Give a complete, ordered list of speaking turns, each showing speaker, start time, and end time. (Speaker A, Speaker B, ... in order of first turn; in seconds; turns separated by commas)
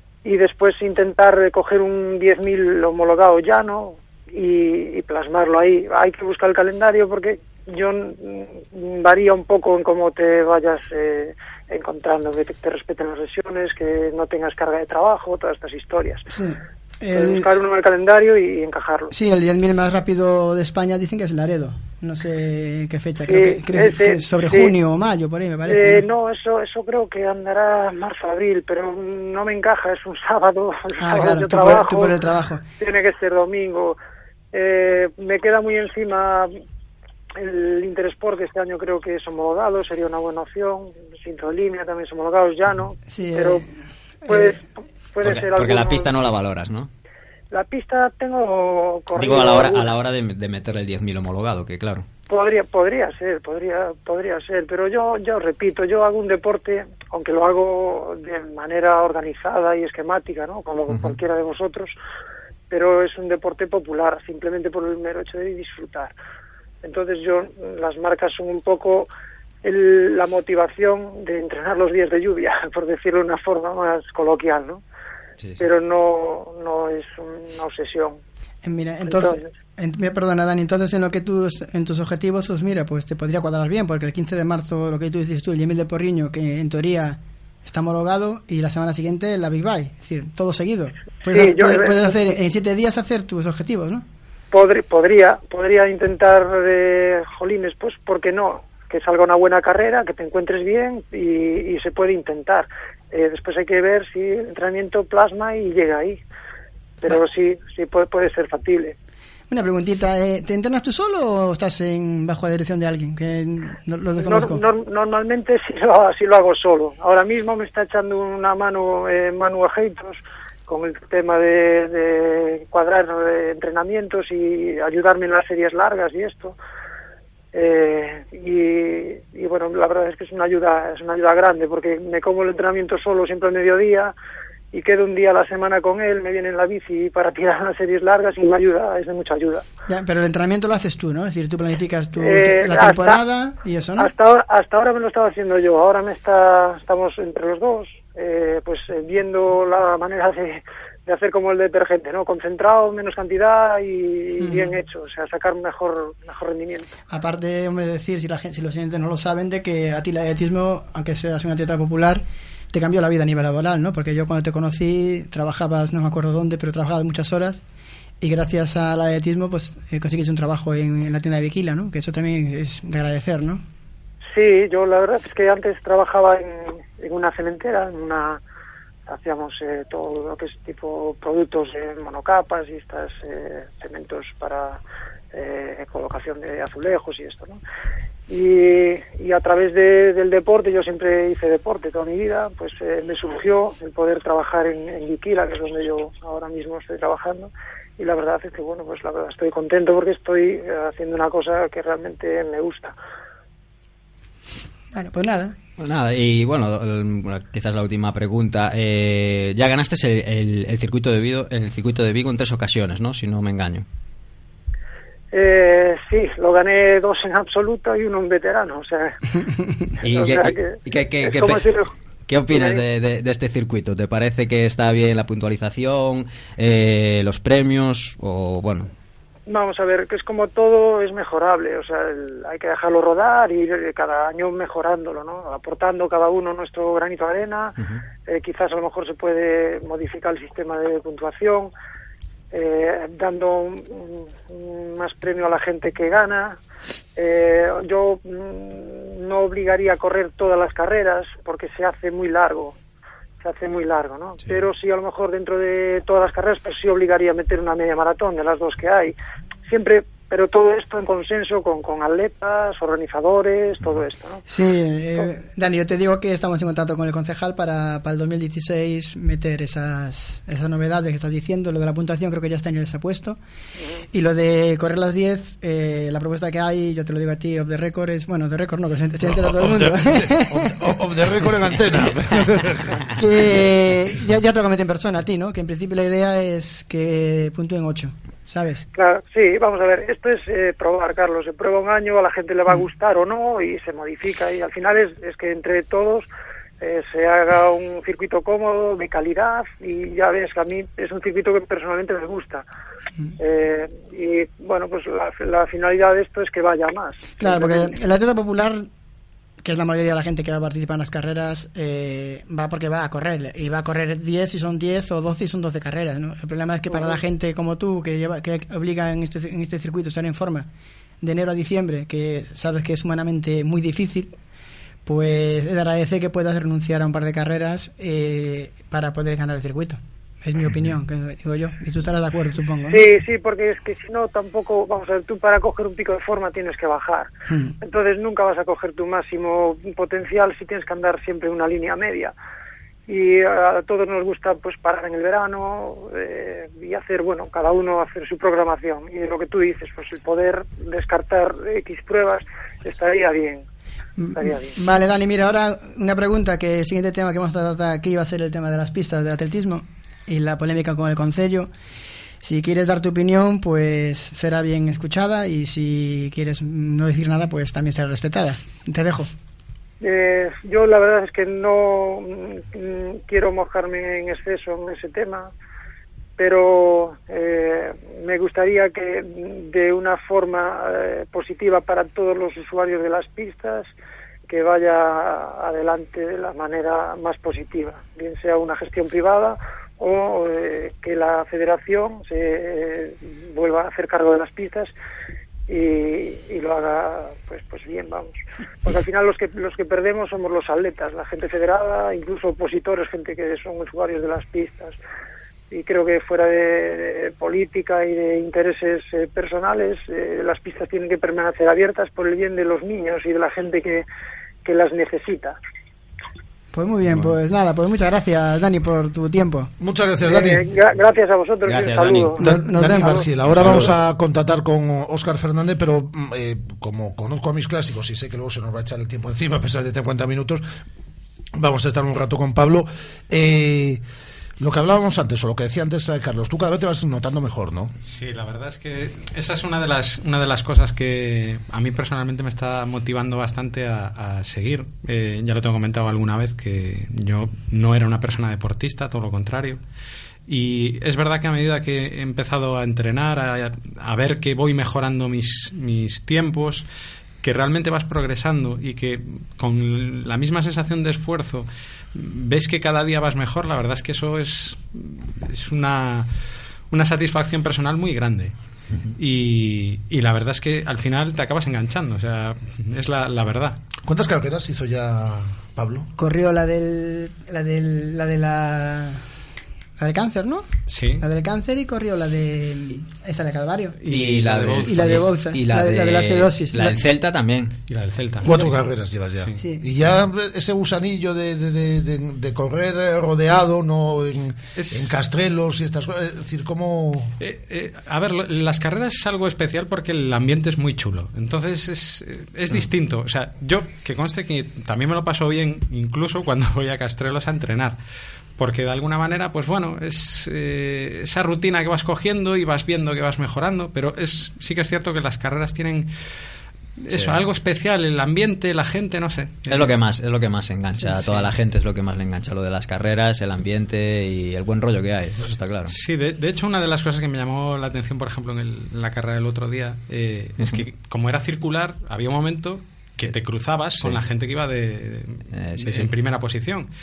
Speaker A: 0.2-16.3, Speaker B: 16.3-17.5, Speaker A: 17.1-19.1, Speaker B: 19.1-26.0, Speaker A: 23.2-24.7, Speaker A: 25.7-32.2, Speaker B: 31.0-32.6, Speaker A: 32.8-34.0, Speaker A: 34.5-36.5, Speaker A: 37.4-43.6, Speaker B: 43.1-43.7, Speaker B: 44.2-44.6, Speaker A: 44.2-46.1, Speaker C: 45.2-46.9, Speaker A: 47.5-49.9, Speaker C: 49.1-52.1, Speaker A: 52.3-61.9, Speaker C: 60.9-61.2, Speaker A: 62.7-66.1, Speaker A: 66.8-69.1, Speaker A: 69.6-74.8, Speaker C: 75.4-75.7, Speaker A: 75.6-78.2, Speaker B: 78.6-94.0, Speaker A: 79.0-79.5, Speaker A: 91.3-92.1, Speaker A: 94.5-106.2, Speaker A: 107.0-108.9, Speaker B: 109.5-114.6, Speaker A: 114.2-126.6, Speaker A: 127.5-134.1, Speaker A: 134.7-139.6, Speaker B: 139.9-144.1, Speaker A: 142.2-143.2, Speaker A: 144.0-156.9, Speaker B: 154.4-154.7, Speaker B: 157.1-167.6, Speaker B: 168.2-173.6, Speaker A: 174.3-178.4, Speaker A: 179.1-184.8, Speaker A: 185.3-187.6, Speaker A: 188.3-202.9, Speaker B: 204.9-205.5, Speaker C: 205.8-213.8, Speaker A: 215.3-219.4, Speaker C: 220.0-228.9, Speaker A: 220.1-221.9, Speaker A: 222.5-222.8, Speaker A: 229.5-241.7, Speaker A: 242.5-246.6, Speaker A: 247.2-252.8, Speaker A: 253.4-259.1, Speaker A: 259.7-264.4, Speaker B: 264.5-273.4, Speaker B: 274.1-280.7, Speaker D: 279.2-283.6, Speaker B: 283.1-288.9, Speaker A: 288.9-296.3, Speaker A: 296.8-302.6, Speaker A: 303.4-307.9, Speaker B: 307.4-308.9, Speaker B: 309.6-320.7, Speaker B: 321.2-324.3, Speaker B: 325.1-333.1, Speaker A: 332.9-342.3, Speaker B: 337.5-337.7, Speaker A: 343.1-353.6, Speaker B: 354.2-361.7, Speaker A: 354.3-354.8, Speaker B: 362.4-369.3, Speaker A: 370.0-375.5, Speaker A: 376.4-383.9, Speaker A: 384.5-394.9, Speaker A: 395.7-405.0, Speaker A: 405.7-414.0, Speaker A: 414.6-415.6, Speaker B: 416.7-419.7, Speaker D: 419.8-420.6, Speaker A: 420.2-422.4, Speaker C: 421.6-422.4, Speaker B: 422.4-423.3, Speaker D: 422.4-430.6, Speaker C: 423.5-423.9, Speaker D: 431.6-434.0, Speaker D: 434.6-437.9, Speaker E: 438.0-449.8, Speaker E: 450.5-456.9, Speaker E: 457.4-466.3, Speaker E: 466.9-468.6, Speaker E: 469.1-473.8, Speaker D: 474.1-476.1, Speaker B: 476.2-479.2, Speaker B: 480.0-480.7, Speaker E: 480.9-481.2, Speaker B: 481.2-484.0, Speaker E: 484.0-485.2, Speaker C: 484.1-487.8, Speaker B: 484.8-487.0, Speaker E: 487.9-488.7, Speaker D: 488.4-497.3, Speaker B: 489.6-489.8, Speaker E: 494.8-495.1, Speaker E: 497.4-508.0, Speaker E: 508.6-516.1, Speaker E: 517.0-520.0, Speaker C: 517.1-517.4, Speaker C: 519.7-525.9, Speaker E: 521.0-521.5, Speaker E: 525.9-536.9, Speaker C: 535.5-536.1